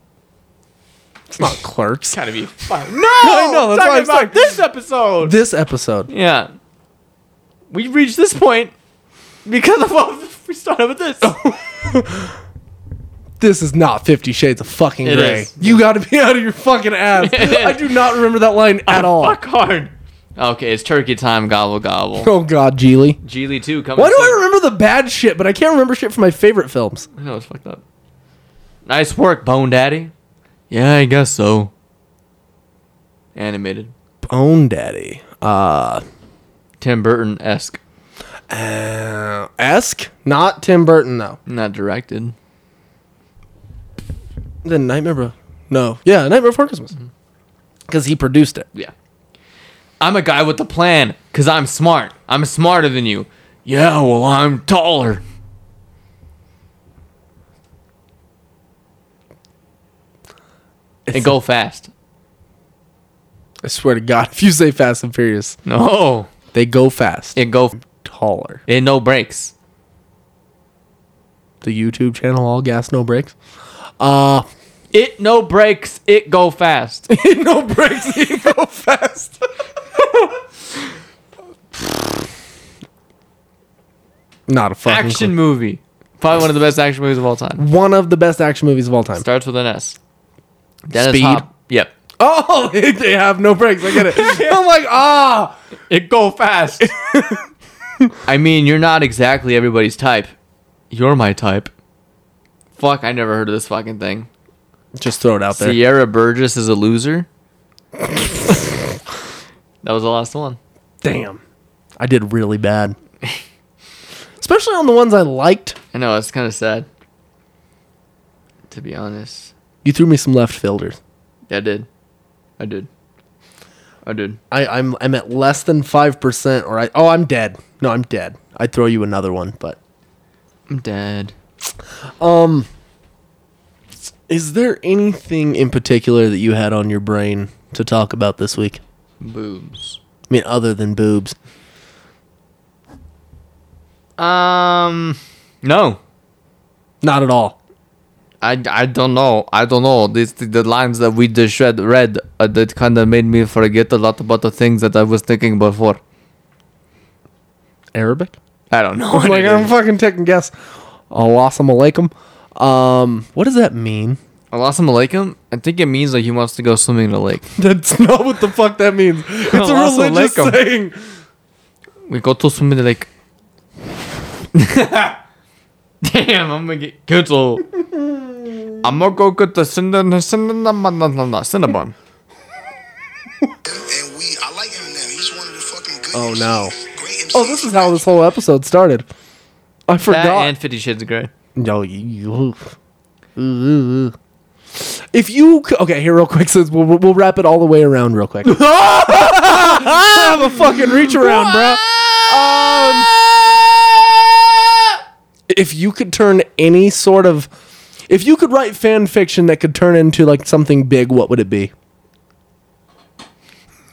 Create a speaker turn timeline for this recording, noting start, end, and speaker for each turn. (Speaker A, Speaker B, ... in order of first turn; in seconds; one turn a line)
Speaker A: 1.3-2.2
Speaker B: 2.1-5.3
Speaker A: 3.2-4.6
Speaker A: 5.2-6.1
Speaker B: 6.1-6.5
Speaker B: 7.7-8.7
Speaker B: 9.4-11.4
Speaker A: 11.2-12.3
Speaker A: 13.4-19.4
Speaker B: 15.0-15.8
Speaker B: 17.2-17.9
Speaker B: 18.9-22.3
Speaker A: 22.2-23.2
Speaker B: 23.2-24.4
Speaker A: 23.9-27.1
Speaker B: 27.1-27.8
Speaker B: 28.9-30.1
Speaker B: 30.7-31.7
Speaker B: 33.3-33.9
Speaker A: 34.2-36.0
Speaker B: 36.8-37.8
Speaker A: 38.5-41.4
Speaker B: 41.5-42.3
Speaker A: 44.6-46.9
Speaker A: 47.9-48.6
Speaker B: 50.0-55.2
Speaker A: 61.1-61.3
Speaker B: 61.1-61.9
Speaker A: 63.6-65.6
Speaker B: 65.7-66.3
Speaker A: 66.5-68.6
Speaker B: 67.3-67.8
Speaker B: 68.7-69.5
Speaker A: 71.6-73.3
Speaker A: 74.0-74.5
Speaker B: 74.9-77.1
Speaker A: 77.1-79.4
Speaker A: 79.9-80.3
Speaker A: 84.5-85.3
Speaker B: 84.8-87.6
Speaker A: 87.6-89.2
Speaker B: 89.1-90.0
Speaker B: 90.9-91.9
Speaker A: 90.9-91.5
Speaker A: 92.2-95.5
Speaker B: 93.9-94.6
Speaker B: 95.9-96.9
Speaker A: 96.8-97.4
Speaker B: 98.2-100.3
Speaker B: 100.9-101.7
Speaker B: 102.8-104.3
Speaker A: 104.9-105.8
Speaker B: 105.5-107.3
Speaker B: 109.8-110.6
Speaker A: 111.0-111.4
Speaker A: 112.0-113.0
Speaker A: 114.4-115.8
Speaker B: 115.9-116.9
Speaker B: 118.7-119.5
Speaker A: 119.8-121.0
Speaker B: 121.5-121.9
Speaker B: 122.6-122.9
Speaker B: 124.0-124.4
Speaker A: 124.5-129.8
Speaker B: 130.7-131.3
Speaker A: 132.2-132.7
Speaker A: 134.3-138.8
Speaker B: 139.2-140.0
Speaker A: 140.3-141.3
Speaker B: 144.2-146.0
Speaker A: 147.0-147.6
Speaker B: 148.4-156.0
Speaker A: 157.9-158.3
Speaker B: 158.7-159.8
Speaker A: 159.1-160.5
Speaker A: 161.1-164.2
Speaker B: 164.5-167.5
Speaker A: 167.6-171.0
Speaker B: 169.5-170.6
Speaker B: 172.1-173.1
Speaker B: 174.5-175.2
Speaker B: 176.0-177.7
Speaker A: 177.9-178.3
Speaker B: 178.8-181.9
Speaker C: 183.7-188.0
Speaker A: 186.1-186.8
Speaker A: 187.3-189.1
Speaker A: 189.9-190.5
Speaker B: 190.1-191.3
Speaker A: 191.6-192.7
Speaker A: 193.3-194.1
Speaker A: 194.8-203.1
Speaker B: 198.4-204.2
Speaker A: 205.5-207.5
Speaker A: 208.1-211.7